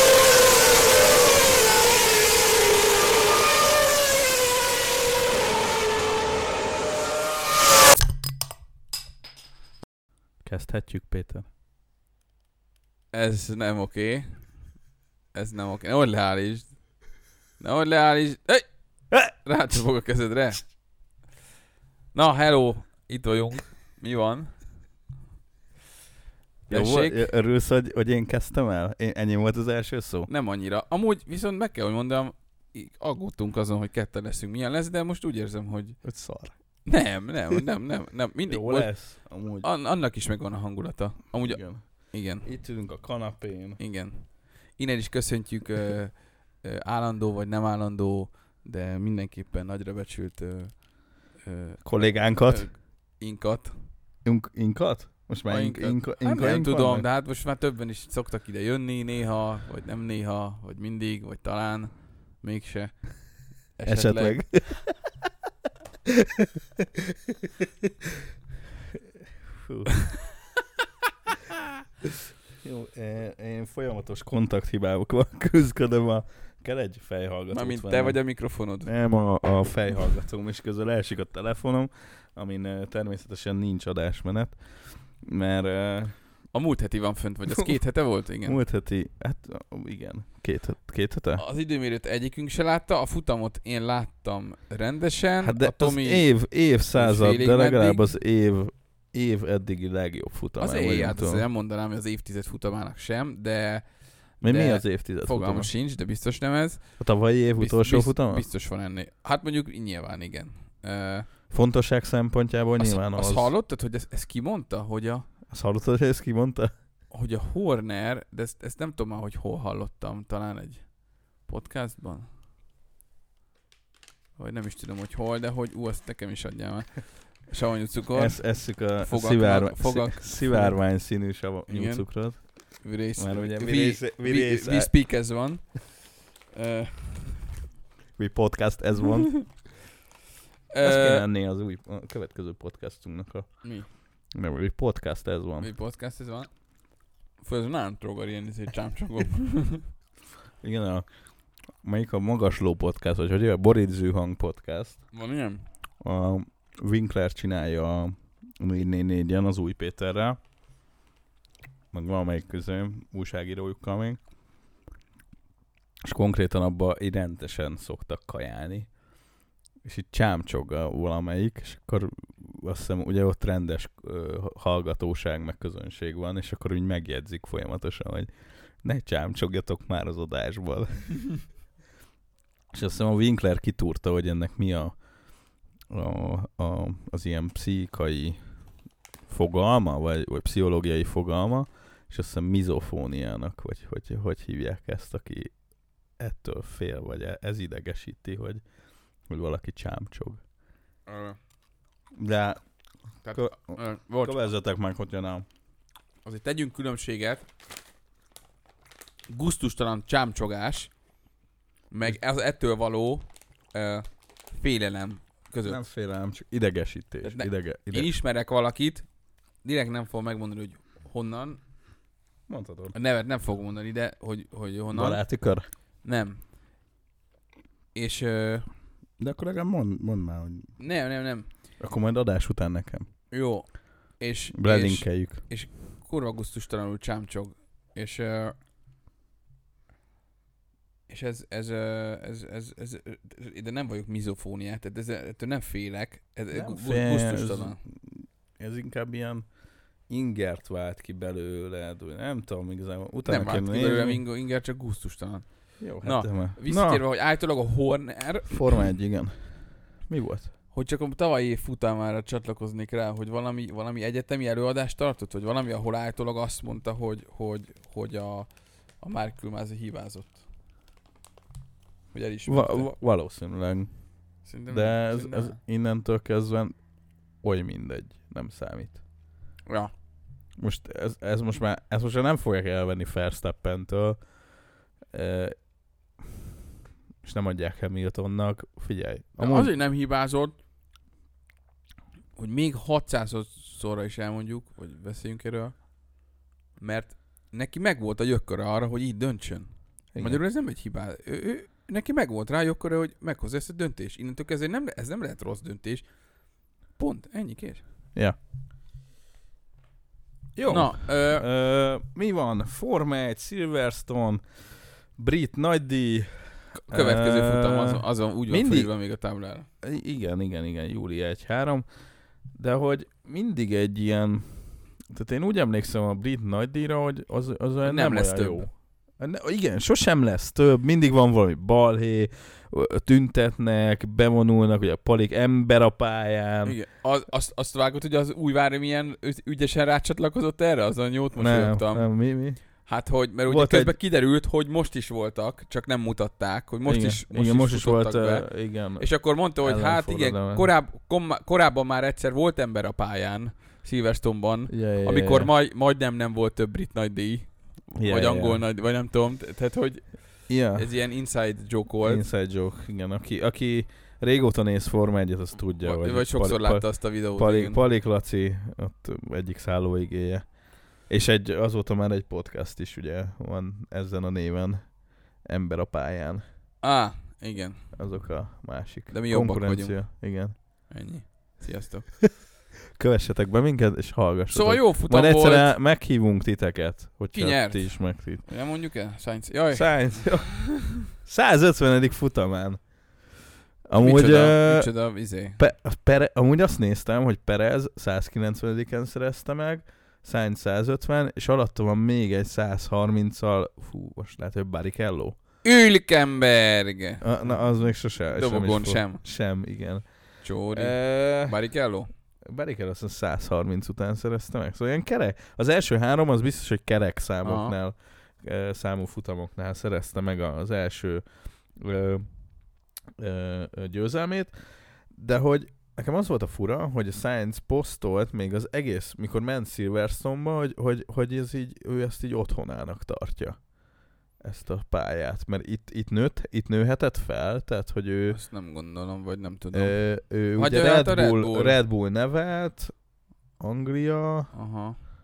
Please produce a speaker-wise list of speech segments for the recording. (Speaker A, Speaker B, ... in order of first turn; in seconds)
Speaker A: 10.4-11.4, 26.7-30.3, 36.0-36.5, 38.5-39.7, 41.4-41.9, 42.4-43.8, 51.8-52.7, 54.2-57.0, 63.9-65.0, 69.5-70.0, 72.6-78.2, 78.8-86.2, 88.4-91.4, 95.4-101.4, 104.4-105.7, 107.0-108.4, 111.5-113.5, 115.5-116.7, 128.1-134.9, 138.2-139.5, 140.8-143.6, 144.3-145.7, 150.6-151.1, 151.8-155.0, 156.0-160.4, 161.9-164.2, 166.0-168.9, 169.8-178.3, 178.8-181.3, 182.7-185.0, 185.9-188.4, 189.3-195.5, 196.2-198.6, 199.3-200.4, 202.1-202.6, 203.3-205.4, 215.6-218.1, 222.5-222.9, 224.9-225.7, 229.2-230.7, 231.8-233.1, 234.5-235.4, 246.5-249.5, 250.1-254.2, 255.8-257.0, 258.5-259.4, 260.0-260.5, 272.5-273.9, 274.7-276.8, 277.4-279.0, 280.6-284.3, 285.1-285.5, 287.2-289.7, 300.1-300.4, 310.6-314.4, 315.1-318.9, 319.8-321.8, 322.5-336.8, 341.3-342.6, 343.4-343.9, 346.9-350.7, 354.7-355.5, 357.9-358.6, 360.5-360.9, 362.0-370.5, 371.1-376.4, 377.9-380.5, 382.9-388.5, 389.7-392.9, 393.9-394.9, 395.6-405.4, 407.2-410.1, 410.7-411.6, 412.4-422.3, 423.2-433.6, 434.4-438.4, 439.7-443.0, 443.6-444.5
Speaker B: 13.1-14.5, 15.3-16.8, 17.6-18.6, 19.2-20.6, 22.1-24.5, 26.7-27.3, 30.3-36.0, 36.8-42.5, 43.8-53.8, 55.5-64.4, 77.5-78.9, 86.5-88.6, 91.3-96.3, 96.9-98.0, 100.6-107.0, 107.5-111.3, 112.8-115.2, 117.1-120.9, 121.5-122.3, 124.4-130.9, 131.7-137.4, 140.7-141.2, 143.6-143.9, 145.6-146.5, 147.4-149.8, 155.1-155.7, 201.1-201.4, 203.2-204.3, 206.2-207.4, 209.3-210.9, 211.9-215.8, 217.2-219.1, 219.6-221.6, 222.9-225.2, 226.0-226.4, 227.9-228.7, 230.8-231.5, 233.3-238.5, 241.1-247.8, 253.2-258.9, 260.7-268.5, 269.0-270.4, 272.1-272.9, 274.4-275.6, 279.7-279.9, 289.4-290.6, 292.4-295.8, 296.8-306.0, 306.9-307.8, 310.7-311.4, 316.9-319.7, 327.8-328.6, 336.6-342.1, 342.7-362.2, 365.8-367.8, 376.8-377.8, 379.1-380.1, 380.9-382.1, 384.5-385.7, 387.3-390.9, 393.9-395.6, 405.6-407.7, 408.3-409.2, 410.4-412.1, 417.4-417.7, 438.3-441.8, 444.5-445.0